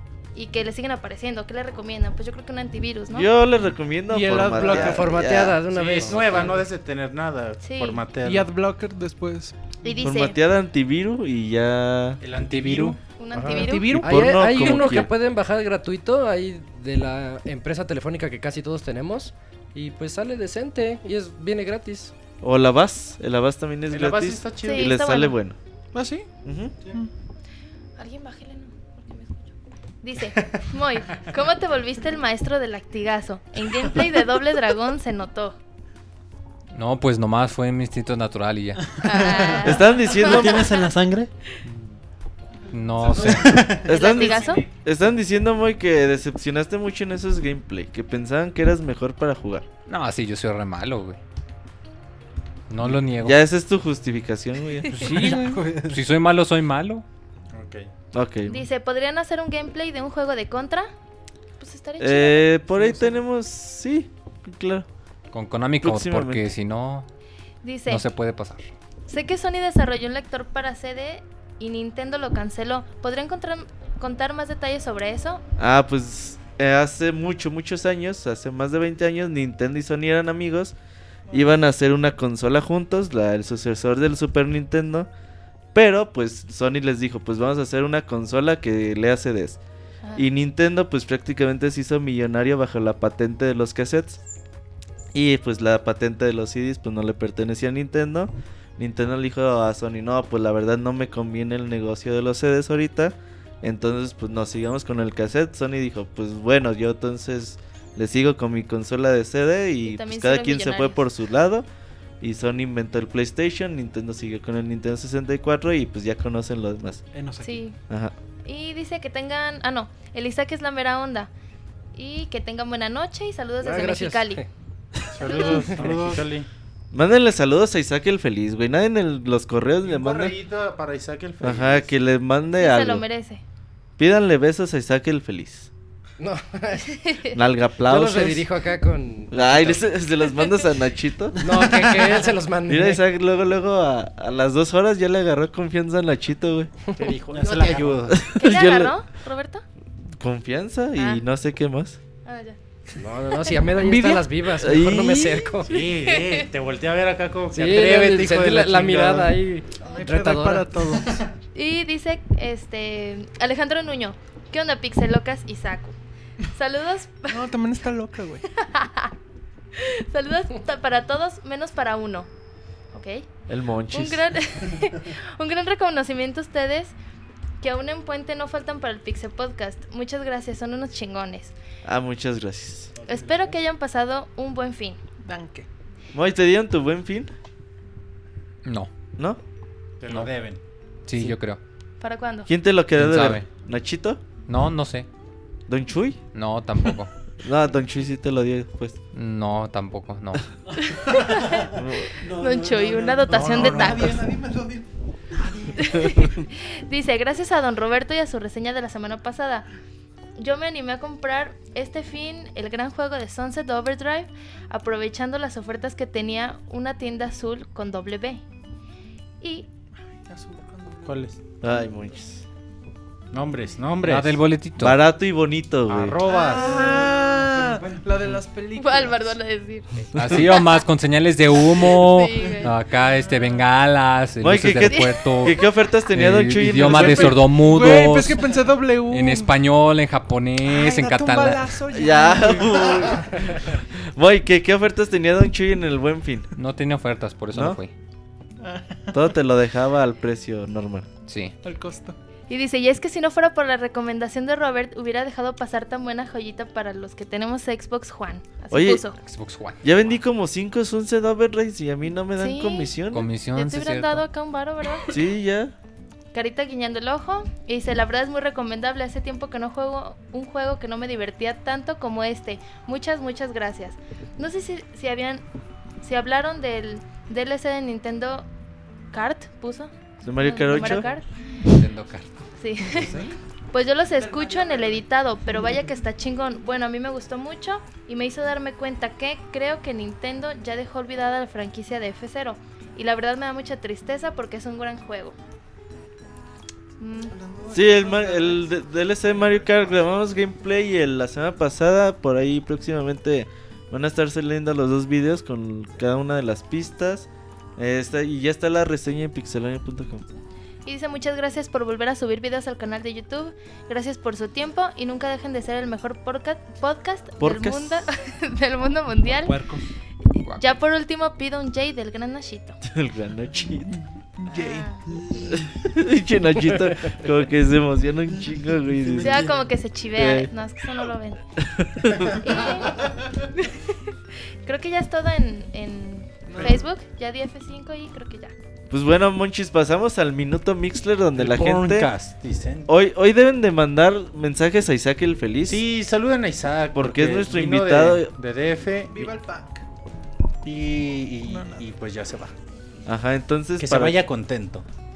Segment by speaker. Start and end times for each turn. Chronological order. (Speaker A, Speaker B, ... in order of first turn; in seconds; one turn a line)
Speaker A: 0.3-3.3
Speaker B: 3.1-5.6
Speaker C: 4.1-5.2
Speaker D: 4.5-6.6
Speaker E: 5.9-8.5
Speaker A: 7.6-8.0
Speaker C: 8.2-9.7
Speaker A: 9.8-10.4
Speaker B: 10.0-12.2
Speaker E: 12.2-13.0
Speaker C: 12.5-12.9
Speaker A: 13.2-14.0
Speaker D: 13.3-22.1
Speaker C: 13.4-14.6
Speaker B: 13.9-15.1
Speaker B: 22.4-25.6
Speaker E: 23.9-24.9
Speaker A: 24.6-25.4
Speaker C: 25.9-26.3
Speaker B: 26.4-26.7
Speaker A: 28.0-35.5
Speaker F: 36.7-39.0
Speaker A: 39.0-40.8
Speaker G: 39.2-41.3
Speaker B: 39.6-40.7
Speaker F: 42.7-43.7
Speaker G: 43.1-44.0
Speaker B: 43.9-49.6
Speaker A: 43.9-44.6
Speaker F: 49.9-51.2
Speaker F: 52.7-53.4
Speaker B: 53.2-55.0
Speaker F: 54.9-57.0
Speaker G: 55.0-56.0
Speaker E: 57.5-57.9
Speaker B: 58.1-58.6
Speaker A: 58.5-60.9
Speaker A: 61.6-62.5
Speaker B: 62.0-64.8
Speaker G: 62.8-63.1
Speaker F: 65.3-67.1
Speaker B: 65.8-66.5
Speaker A: 67.6-68.0
Speaker F: 67.9-68.7
Speaker A: 69.1-75.4
Speaker B: 75.6-80.7
Speaker C: 81.3-81.5
Speaker B: 81.3-85.1
Speaker B: 85.7-89.6
Speaker B: 90.1-94.2
Speaker B: 95.1-111.6
Speaker A: 109.8-111.0
Speaker B: 112.2-117.0
Speaker G: 117.1-117.7
Speaker A: 117.4-117.8
Speaker B: 117.9-118.1
Speaker A: 118.5-121.3
Speaker A: 121.9-124.4
Speaker D: 123.6-124.5
Speaker G: 125.1-126.3
Speaker E: 125.2-126.5
Speaker A: 125.2-125.7
Speaker D: 125.3-125.6
Speaker B: 126.9-130.3
Speaker E: 129.8-131.9
Speaker B: 131.4-133.0
Speaker A: 132.6-133.4
Speaker B: 134.0-135.7
Speaker D: 136.2-137.0
Speaker A: 136.9-137.4
Speaker B: 137.3-138.4
Speaker D: 137.8-139.8
Speaker B: 139.3-141.4
Speaker G: 141.3-142.2
Speaker D: 141.4-143.0
Speaker B: 142.7-146.7
Speaker E: 147.0-148.1
Speaker G: 147.3-148.2
Speaker B: 148.1-148.9
Speaker A: 148.3-149.6
Speaker B: 150.2-152.0
Speaker A: 150.9-151.2
Speaker A: 152.2-152.6
Speaker D: 153.0-155.7
Speaker C: 153.8-154.2
Speaker B: 154.6-155.4
Speaker E: 155.7-159.3
Speaker A: 155.7-156.5
Speaker D: 157.5-160.8
Speaker C: 159.8-161.2
Speaker A: 161.5-165.9
Speaker A: 166.6-167.4
Speaker C: 167.3-168.4
Speaker A: 168.5-169.1
Speaker A: 169.7-172.3
Speaker A: 172.9-173.3
Speaker B: 173.5-174.2
Speaker A: 173.9-176.9
Speaker A: 177.6-181.5
Speaker B: 181.8-182.9
Speaker A: 183.1-185.0
Speaker G: 183.1-183.5
Speaker C: 185.2-185.7
Speaker B: 186.1-187.3
Speaker F: 188.6-188.9
Speaker E: 190.0-190.6
Speaker F: 191.1-191.6
Speaker A: 192.0-192.5
Speaker B: 192.5-194.2
Speaker F: 192.9-193.4
Speaker F: 194.5-195.1
Speaker B: 195.7-196.2
Speaker F: 196.3-197.1
Speaker B: 197.4-199.0
Speaker F: 199.1-200.5
Speaker A: 200.8-201.7
Speaker G: 200.9-205.8
Speaker B: 201.7-202.1
Speaker A: 202.2-204.2
Speaker E: 203.6-203.9
Speaker A: 205.8-209.7
Speaker A: 210.4-218.4
Speaker A: 219.4-219.7
Speaker C: 220.2-221.3
Speaker E: 221.0-221.3
Speaker B: 221.6-222.4
Speaker E: 223.3-224.4
Speaker F: 224.0-225.0
Speaker B: 224.8-227.8
Speaker E: 225.9-226.8
Speaker C: 226.2-227.5
Speaker G: 226.5-228.4
Speaker C: 228.0-229.4
Speaker A: 228.8-230.6
Speaker F: 230.1-235.6
Speaker A: 231.7-232.7
Speaker C: 233.3-233.6
Speaker B: 234.4-237.5
Speaker A: 234.8-235.5
Speaker F: 236.1-241.8
Speaker C: 236.8-239.6
Speaker C: 240.6-243.7
Speaker B: 241.9-246.5
Speaker F: 246.6-247.9
Speaker B: 247.5-247.8
Speaker C: 248.6-249.2
Speaker B: 249.1-251.1
Speaker F: 251.3-251.6
Speaker C: 251.6-252.2
Speaker A: 252.5-259.2
Speaker B: 258.7-259.0
Speaker F: 259.2-260.2
Speaker B: 259.8-263.3
Speaker A: 262.4-262.9
Speaker F: 263.1-264.2
Speaker A: 263.5-265.2
Speaker B: 265.1-265.7
Speaker A: 266.3-275.4
Speaker A: 276.0-278.5
Speaker A: 279.1-281.8
Speaker B: 280.2-281.1
Speaker F: 281.6-282.3
Speaker A: 282.6-295.4
Speaker F: 282.8-283.4
Speaker C: 284.4-284.9
Speaker A: 297.0-297.3
Speaker C: 297.4-298.7
Speaker G: 297.5-298.1
Speaker B: 297.7-310.2
Speaker A: 310.9-319.5
Speaker B: 317.4-318.1
Speaker G: 319.4-319.8
Speaker C: 319.5-319.8
Speaker A: 320.3-322.8
Speaker F: 320.4-320.6
Speaker B: 322.8-323.9
Speaker C: 324.4-324.9
Speaker A: 324.6-325.0
Speaker G: 325.1-325.5
Speaker B: 325.5-329.5
Speaker G: 328.7-329.7
Speaker A: 329.2-331.4
Speaker B: 330.1-330.5
Speaker B: 331.6-332.6
Speaker G: 332.3-332.8
Speaker A: 332.4-338.5
Speaker C: 336.5-336.9
Speaker B: 338.9-342.1
Speaker E: 341.3-342.9
Speaker B: 342.9-345.8
Speaker E: 345.7-349.3
Speaker B: 346.9-348.3
Speaker C: 349.1-349.8
Speaker E: 350.6-352.5
Speaker C: 351.4-351.8
Speaker B: 353.1-354.2
Speaker E: 353.8-354.9